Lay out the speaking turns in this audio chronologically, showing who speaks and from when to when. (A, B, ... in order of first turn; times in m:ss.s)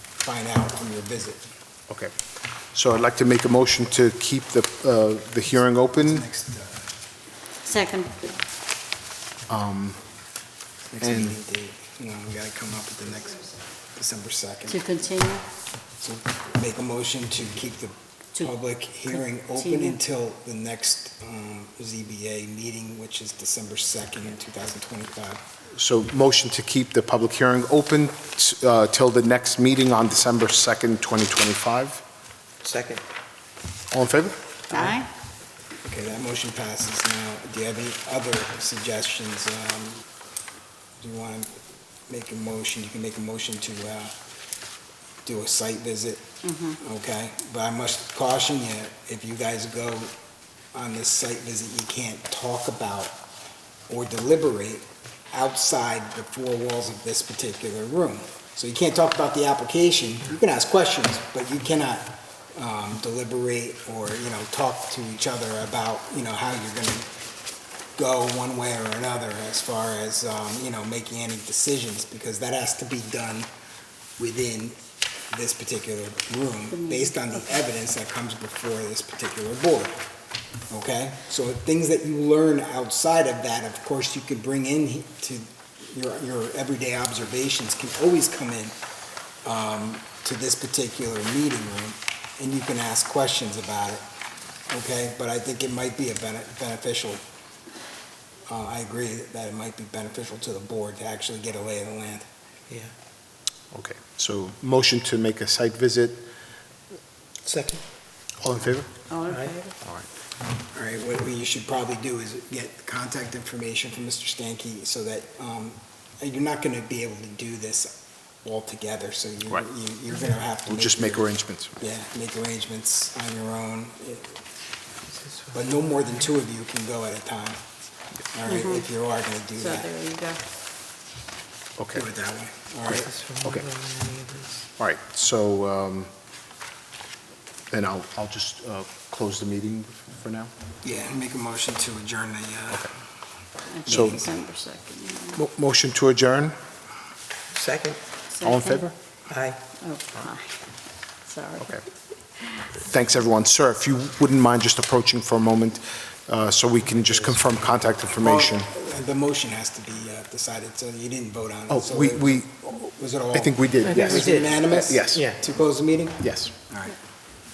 0:00.2-0:01.4 A
0:01.9-0:02.1 B
0:02.7-0:06.2 B
0:05.9-0:06.9 A
0:07.6-0:08.4 C
0:09.5-0:10.0 B
0:10.9-0:14.9 A
0:11.0-0:11.3 B
0:14.7-0:15.4 C
0:16.0-0:25.4 A
0:19.6-0:20.0 C
0:25.7-0:32.0 B
0:32.6-0:33.0 D
0:33.9-0:34.4 B
0:34.7-0:35.1 C
0:35.8-0:40.0 A
0:41.0-0:41.6 A
0:42.1-0:44.1 A
0:45.2-0:50.1 A
0:46.4-0:46.8 C
0:50.7-0:53.2 A
0:53.9-1:07.1 A
1:08.0-1:13.5 A
1:14.2-1:14.8 A
1:15.3-1:20.0 A
1:16.8-1:17.3 C
1:20.7-1:28.8 A
1:29.4-1:34.0 A
1:34.7-1:37.2 A
1:38.5-1:42.2 A
1:42.7-1:42.9 D
1:43.7-1:46.3 B
1:47.4-1:47.8 D
1:48.4-1:49.0 B
1:49.1-1:49.7 C
1:49.3-1:49.6 D
1:50.7-2:04.4 A
2:00.6-2:01.8 B
2:05.1-2:05.6 D
2:05.5-2:07.6 A
2:08.3-2:09.9 A
2:08.4-2:08.8 C
2:09.6-2:10.4 C
2:11.8-2:12.0 B
2:11.9-2:13.1 A
2:12.9-2:14.7 D
2:14.8-2:16.1 B
2:17.7-2:20.5 B
2:20.8-2:22.9 A
2:23.7-2:25.4 C
2:23.8-2:24.2 A
2:23.8-2:24.2 B
2:25.3-2:26.6 B
2:27.5-2:28.0 D
2:28.3-2:28.9 C
2:28.4-2:28.9 B
2:29.3-2:29.6 D
2:29.8-2:30.6 C
2:31.2-2:31.8 C
2:32.4-2:32.7 C
2:32.7-2:38.7 B
2:38.2-2:47.0 A
2:41.7-2:45.4 B
2:43.8-2:45.4 D
2:46.2-2:46.5 B